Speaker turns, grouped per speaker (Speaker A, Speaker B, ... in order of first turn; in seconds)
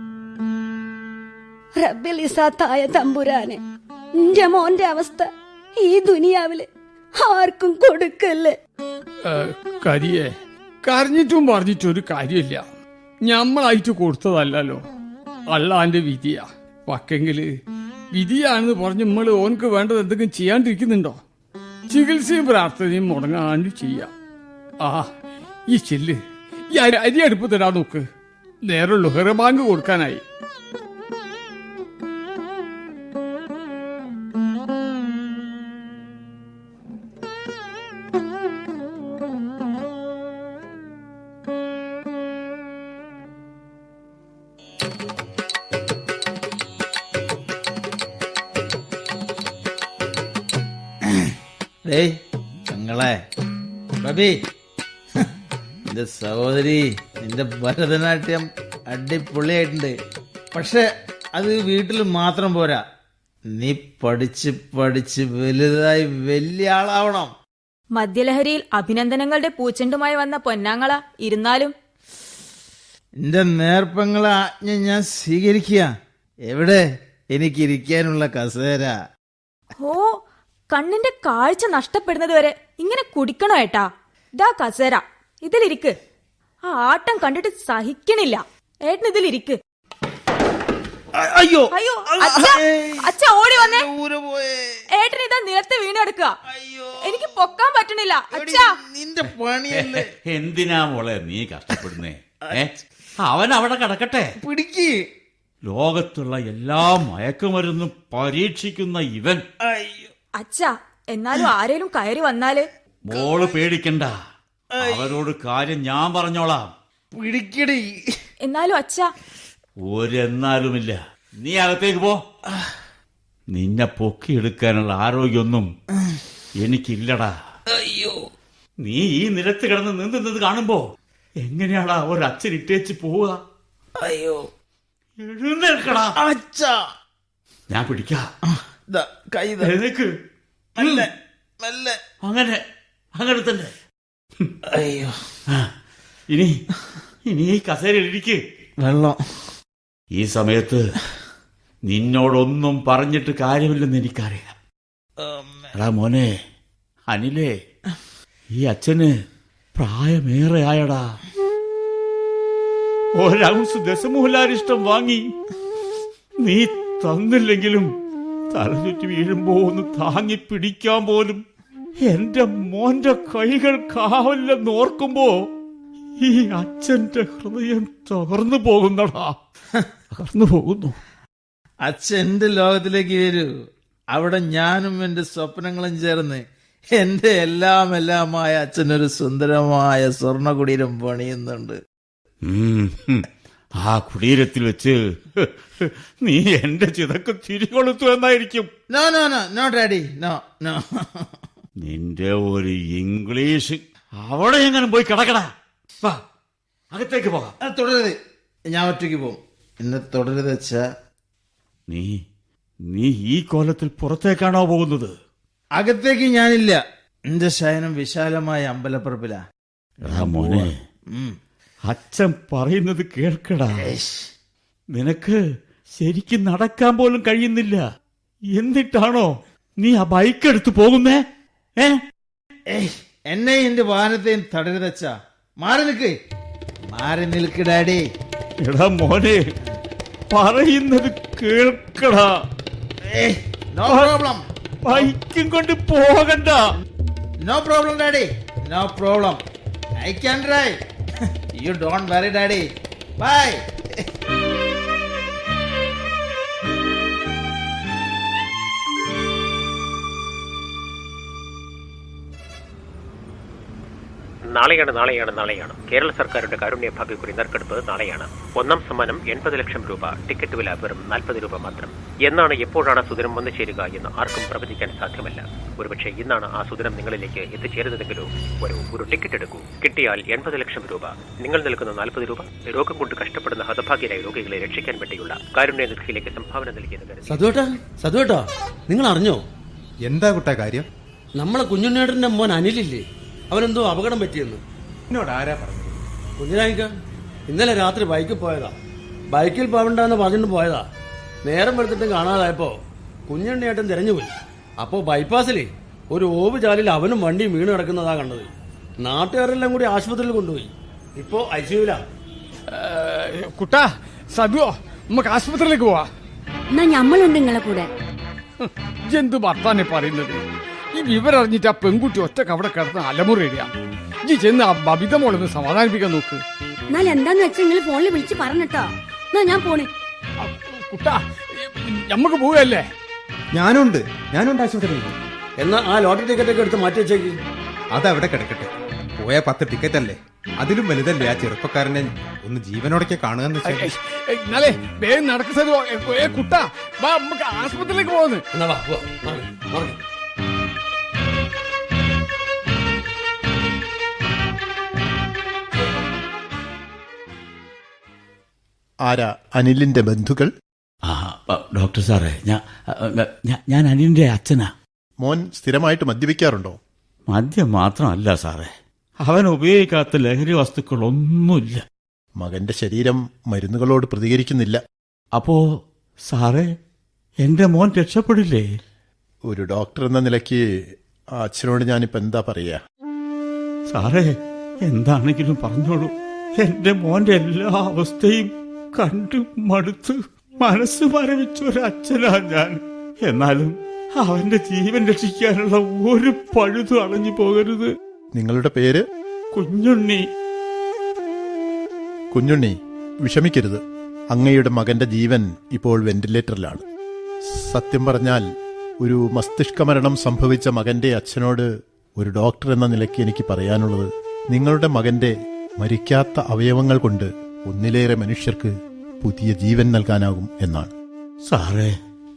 Speaker A: 1.8-3.6, 4.2-5.3, 5.8-6.7, 7.2-8.6, 316.7-317.9, 326.9-329.9
Speaker B: 9.2-10.3, 10.8-12.6, 13.3-14.8, 15.5-17.5, 18.1-21.2, 21.9-24.1, 24.8-25.1, 25.7-26.2, 26.7-28.0, 28.7-30.2, 312.7-316.1, 318.6-320.4, 320.9-323.7, 324.2-326.4, 330.4-332.8, 343.7-348.4
Speaker C: 51.1-51.3, 51.9-52.1, 52.7-53.2, 54.0-54.4, 55.9-59.9, 60.5-62.8, 63.5-67.3, 73.2-75.9, 76.5-78.9, 91.2-93.1, 93.6-94.8, 96.5-97.2, 98.3-100.1, 104.4-105.0, 109.6-110.1, 114.7-115.2, 117.1-118.0, 127.7-128.2, 134.0-134.5, 136.2-136.8, 138.5-139.7, 140.8-141.1, 141.6-142.0, 144.7-145.2, 148.8-149.2, 155.2-155.7, 181.8-183.5, 184.1-186.4, 187.0-191.8, 198.9-201.3, 207.6-208.2, 208.7-210.9, 215.8-219.4, 220.0-221.3, 223.8-224.2, 232.7-236.2, 236.9-238.1, 243.1-245.1, 247.4-249.4, 250.0-250.8, 251.6-252.7, 253.2-254.0
Speaker D: 67.9-71.7, 79.8-83.9, 84.4-85.9, 86.7-89.6, 91.7-93.9, 94.9-96.3, 97.0-98.8, 110.4-112.7, 118.4-119.1
Speaker E: 99.9-102.7, 103.2-104.3, 105.7-109.4, 113.0-114.1, 114.8-116.7, 119.8-122.2, 123.5-125.7, 126.6-127.3, 128.8-130.8, 131.4-133.4, 135.2-136.1, 137.7-138.2, 139.6-140.1, 142.2-142.6, 143.2-143.7, 146.3-146.6, 147.3-148.4, 150.1-150.8, 151.9-154.5, 155.8-156.3, 157.1-157.5, 158.6-159.1, 159.7-161.2, 163.2-165.3, 166.4-167.9, 168.5-171.4, 172.1-175.3, 176.2-179.4, 180.1-180.9, 192.4-193.3, 193.8-198.7, 201.8-205.5, 206.9-207.5, 211.9-212.2, 212.9-215.1, 220.1-220.7, 221.8-223.8, 224.9-225.4, 226.0-227.8, 228.5-231.2, 238.6-239.4, 240.3-242.3, 243.9-244.1, 244.8-246.6, 361.1-364.7, 367.3-368.7, 369.2-371.8, 375.4-375.6, 376.3-376.7, 377.4-378.7, 383.9-397.9, 399.5-400.2, 421.5-421.9
Speaker F: 264.5-287.3
Speaker G: 287.3-289.4, 291.4-294.6, 296.4-296.9, 297.5-298.7, 299.3-300.9, 301.4-302.8, 303.3-308.5, 309.0-312.0, 335.6-337.4, 348.5-350.0
Speaker H: 290.0-290.9, 295.1-296.1, 333.5-335.1, 337.9-343.9
Speaker I: 359.0-360.5, 365.2-366.8, 372.4-374.8, 379.5-380.8, 381.4-382.8, 398.3-399.0, 402.3-403.8, 404.3-406.8, 407.5-408.4, 409.0-420.9